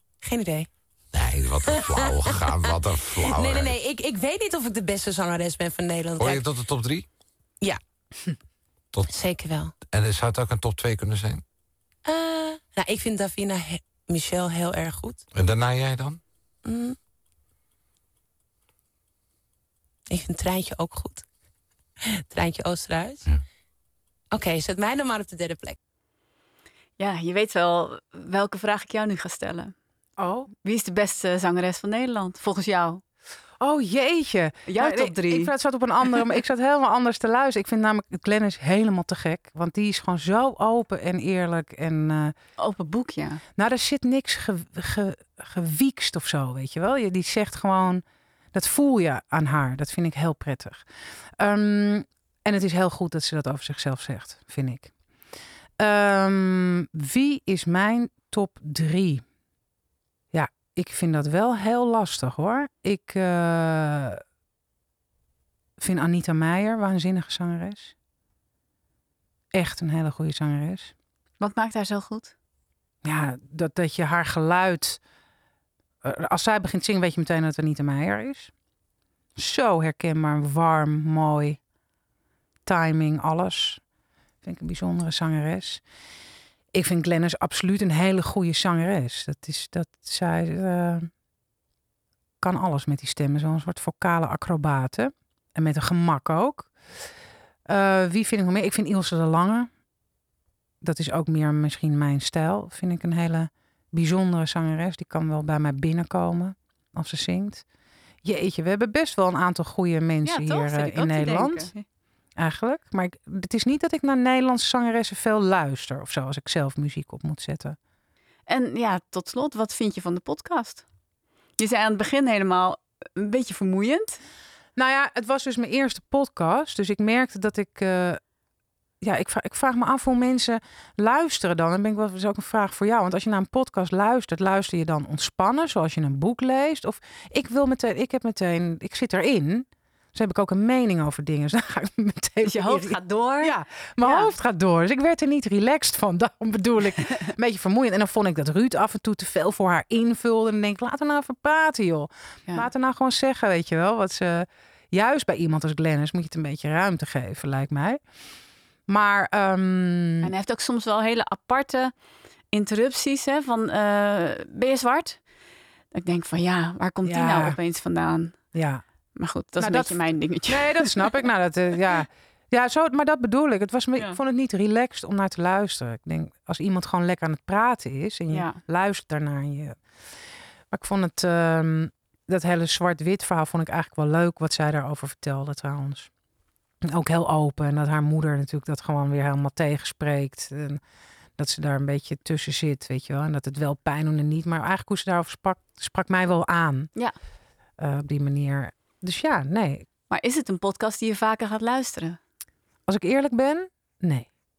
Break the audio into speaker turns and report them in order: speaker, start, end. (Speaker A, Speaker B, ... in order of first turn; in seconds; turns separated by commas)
Speaker A: 0.2-0.7, Speaker B: 1.1-3.8, Speaker A: 1.6-6.5, Speaker B: 6.2-7.1, Speaker A: 9.1-9.7, Speaker B: 9.9-11.4, Speaker A: 12.1-15.2, Speaker B: 15.3-16.2, Speaker A: 16.6-16.9, Speaker A: 20.1-21.2, Speaker A: 22.1-23.2, Speaker A: 24.3-25.8, Speaker C: 27.0-29.7, Speaker D: 30.2-30.5, Speaker C: 30.6-33.0, Speaker D: 33.6-42.3, Speaker C: 34.7-35.5, Speaker C: 42.6-43.4, Speaker D: 43.6-48.0, Speaker D: 48.5-50.8, Speaker D: 51.4-54.9, Speaker D: 55.8-59.2, Speaker D: 60.3-64.2, Speaker D: 65.8-67.9, Speaker D: 69.5-70.9, Speaker C: 71.4-72.3, Speaker D: 73.0-75.0, Speaker D: 76.0-78.5, Speaker D: 79.4-81.6, Speaker D: 82.7-83.8, Speaker D: 84.4-85.8, Speaker D: 86.7-91.1, Speaker D: 92.4-96.7, Speaker D: 97.7-99.7, Speaker D: 100.8-107.6, Speaker D: 108.2-111.7, Speaker C: 110.2-111.8, Speaker D: 112.4-117.8, Speaker C: 118.5-120.8, Speaker C: 121.6-124.2, Speaker D: 124.8-128.2, Speaker D: 129.0-158.0, Speaker C: 142.4-144.3, Speaker D: 158.9-160.3, Speaker C: 160.2-161.9, Speaker C: 162.5-165.2, Speaker C: 165.9-168.3, Speaker D: 167.0-167.6, Speaker D: 168.5-168.8, Speaker C: 169.1-171.2, Speaker D: 169.6-179.8, Speaker C: 178.3-178.6, Speaker D: 180.7-186.1, Speaker D: 186.8-190.8, Speaker D: 191.4-196.9, Speaker D: 197.8-199.8, Speaker C: 200.1-202.2, Speaker D: 202.9-204.3